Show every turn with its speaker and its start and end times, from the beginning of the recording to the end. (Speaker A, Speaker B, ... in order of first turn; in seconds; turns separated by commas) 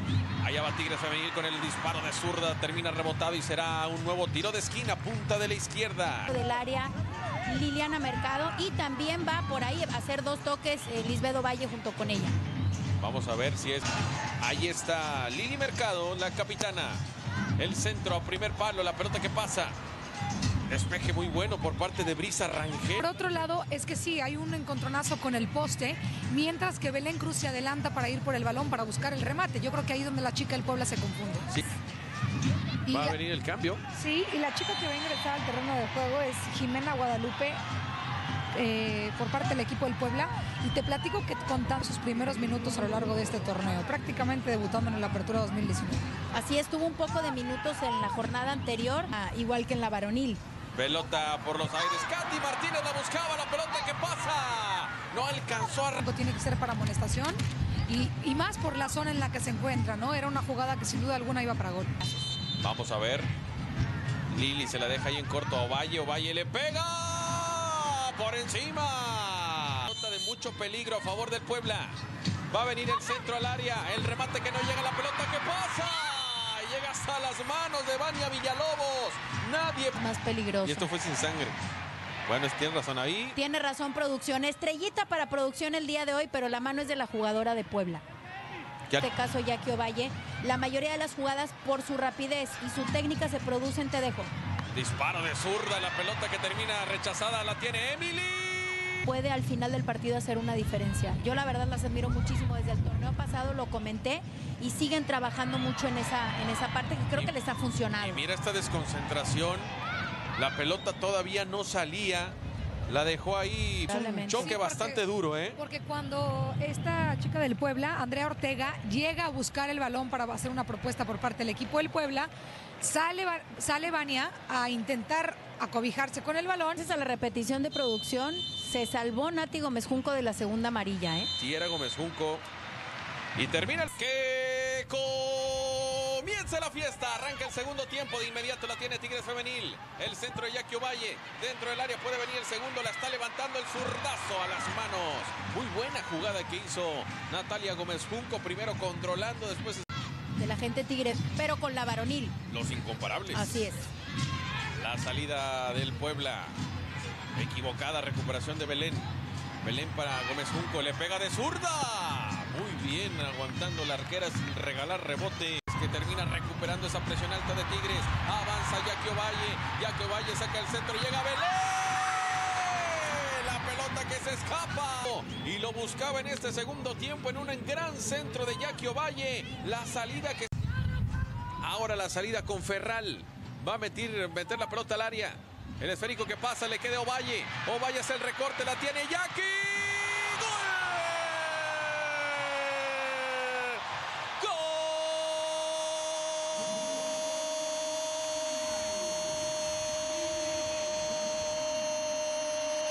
Speaker A: 0.4-6.3, Speaker B: 6.3-6.9, Speaker B: 7.5-12.4, Speaker A: 13.0-13.9, Speaker A: 14.4-17.0, Speaker A: 17.6-19.8, Speaker A: 20.7-23.1, Speaker C: 23.0-31.5, Speaker C: 32.9-33.2, Speaker A: 32.9-33.8, Speaker C: 33.9-37.6, Speaker C: 38.5-46.1, Speaker B: 46.3-50.4, Speaker A: 50.8-56.0, Speaker C: 56.0-62.0, Speaker A: 62.6-63.3, Speaker A: 64.3-72.0, Speaker A: 72.5-80.0, Speaker B: 80.0-80.9, Speaker A: 80.6-81.7, Speaker A: 82.3-83.4, Speaker B: 83.4-88.0, Speaker B: 89.0-94.3, Speaker A: 94.7-99.1, Speaker B: 99.1-108.2, Speaker A: 108.0-109.7, Speaker A: 110.4-112.4, Speaker A: 112.9-115.6, Speaker B: 113.9-114.6, Speaker C: 114.3-115.0, Speaker C: 115.5-126.8, Speaker B: 126.8-131.3, Speaker A: 131.4-132.5, Speaker A: 133.3-149.9, Speaker B: 150.4-152.3, Speaker A: 152.5-153.6, Speaker B: 153.3-153.9, Speaker A: 154.8-156.6, Speaker A: 157.3-159.1, Speaker A: 159.6-180.6, Speaker A: 181.6-193.8, Speaker A: 194.4-196.5